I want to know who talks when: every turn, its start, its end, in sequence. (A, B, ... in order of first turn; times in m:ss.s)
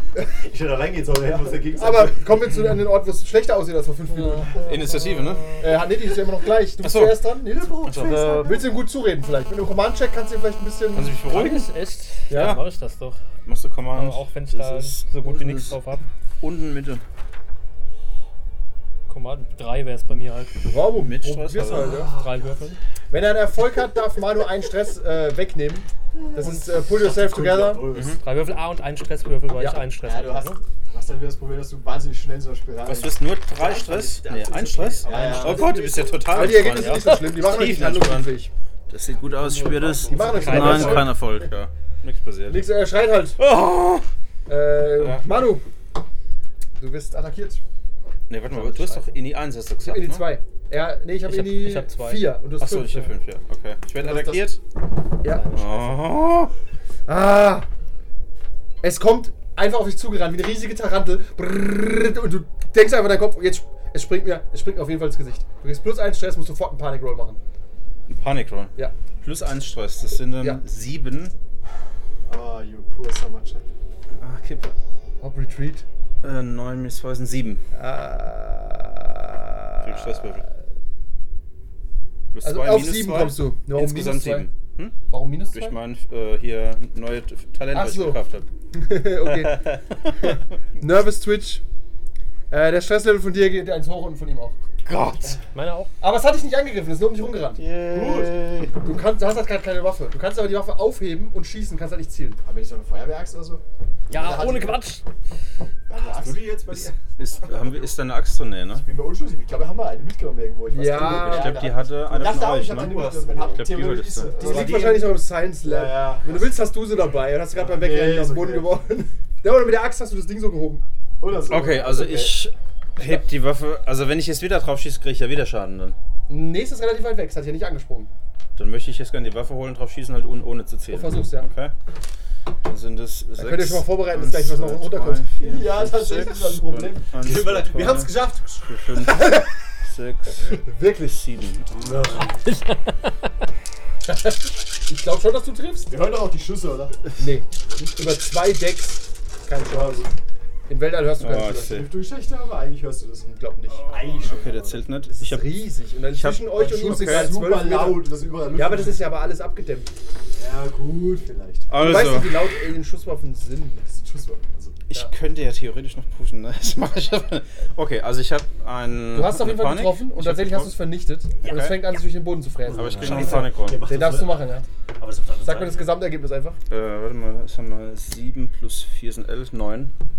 0:00.2-0:02.4 A
0:01.2-0:02.1 B
0:01.8-0:04.7 C
0:04.1-0:05.8 D
0:04.6-0:05.6 E
0:05.6-0:11.2 C
0:06.8-0:08.3 E
0:07.8-0:08.7 B
0:08.1-0:08.4 D
0:10.9-0:11.7 E
0:11.3-0:13.2 D
0:12.3-0:12.6 C
0:13.4-0:15.8 E
0:13.9-0:16.1 D
0:16.4-0:17.0 E
0:19.1-0:20.6 D
0:20.7-0:22.1 C
0:20.9-0:22.0 E
0:21.7-0:22.5 A
0:22.0-0:22.8 D
0:23.1-0:27.9 C
0:26.4-0:28.2 A
0:27.9-0:28.2 E
0:28.2-0:30.6 D
0:29.6-0:29.8 C
0:30.0-0:33.2 B
0:32.9-0:38.4 E
0:33.6-0:35.9 A
0:35.0-0:36.0 B
0:36.2-0:38.5 C
0:36.5-0:37.4 D
0:38.9-0:42.7 E
0:39.3-0:40.8 A
0:40.1-0:41.4 C
0:40.3-0:41.1 D
0:40.5-0:41.0 B
0:42.5-0:43.4 C
0:43.4-0:44.1 E
0:44.5-0:45.7 C
0:44.9-0:45.3 E
0:46.8-0:47.6 C
0:48.3-0:50.3 E
0:48.5-0:49.1 D
0:49.8-0:53.1 C
0:51.2-0:52.4 D
0:52.6-0:54.6 E
0:54.0-0:54.4 C
0:55.2-0:55.5 C
0:55.2-0:56.1 D
0:55.5-0:56.5 E
0:57.1-0:57.7 C
0:58.8-1:07.4 C
1:08.1-1:11.3 E
1:10.4-1:10.6 C
1:12.3-1:13.7 B
1:14.2-1:14.7 E
1:15.2-1:15.8 C
1:16.2-1:17.6 E
1:17.7-1:20.4 C
1:19.8-1:20.4 E
1:22.3-1:25.0 E
1:22.4-1:24.5 C
1:25.1-1:25.8 C
1:25.5-1:28.5 E
1:27.7-1:28.2 C
1:28.7-1:31.6 C
1:29.2-1:30.3 E
1:32.5-1:34.6 C
1:34.8-1:35.4 E
1:35.5-1:35.9 D
1:36.0-1:42.4 C
1:37.6-1:38.8 E
1:42.4-1:44.8 B
1:44.1-1:45.0 D
1:45.9-1:46.8 B
1:46.0-1:47.0 A
1:47.2-1:48.9 E
1:48.8-1:56.5 B
1:50.7-1:51.6 C
1:51.0-1:54.4 E
1:52.2-1:53.8 A
1:54.4-2:00.8 C
1:57.6-1:58.8 B
2:01.2-2:02.4 B
2:01.5-2:06.0 E
2:06.3-2:08.1 C
2:08.6-2:11.7 E
2:10.9-2:11.5 C
2:12.6-2:18.2 E
2:13.4-2:15.3 C
2:15.4-2:17.1 B
2:17.2-2:18.7 A
2:18.7-2:22.2 E
2:19.0-2:19.5 C
2:20.5-2:21.2 C
2:21.7-2:22.4 A
2:22.4-2:23.1 D
2:24.8-2:25.9 C
2:25.9-2:27.0 B
2:27.2-2:30.1 C
2:29.6-2:30.1 B
2:30.7-2:31.8 C
2:31.2-2:31.9 E
2:31.7-2:33.3 B
2:33.2-2:34.0 C
2:33.9-2:34.8 A
2:33.9-2:34.8 B
2:33.9-2:37.4 E
2:35.1-2:39.9 C
2:36.5-2:39.1 B
2:40.4-2:41.8 B
2:41.7-2:42.5 E
2:41.8-2:43.9 C
2:43.9-2:44.8 B
2:44.9-2:50.8 E
2:49.1-2:54.6 C
2:51.4-2:51.8 E
2:52.7-2:56.0 A
2:52.7-2:53.8 E
2:55.4-2:56.6 C
2:56.7-2:59.9 E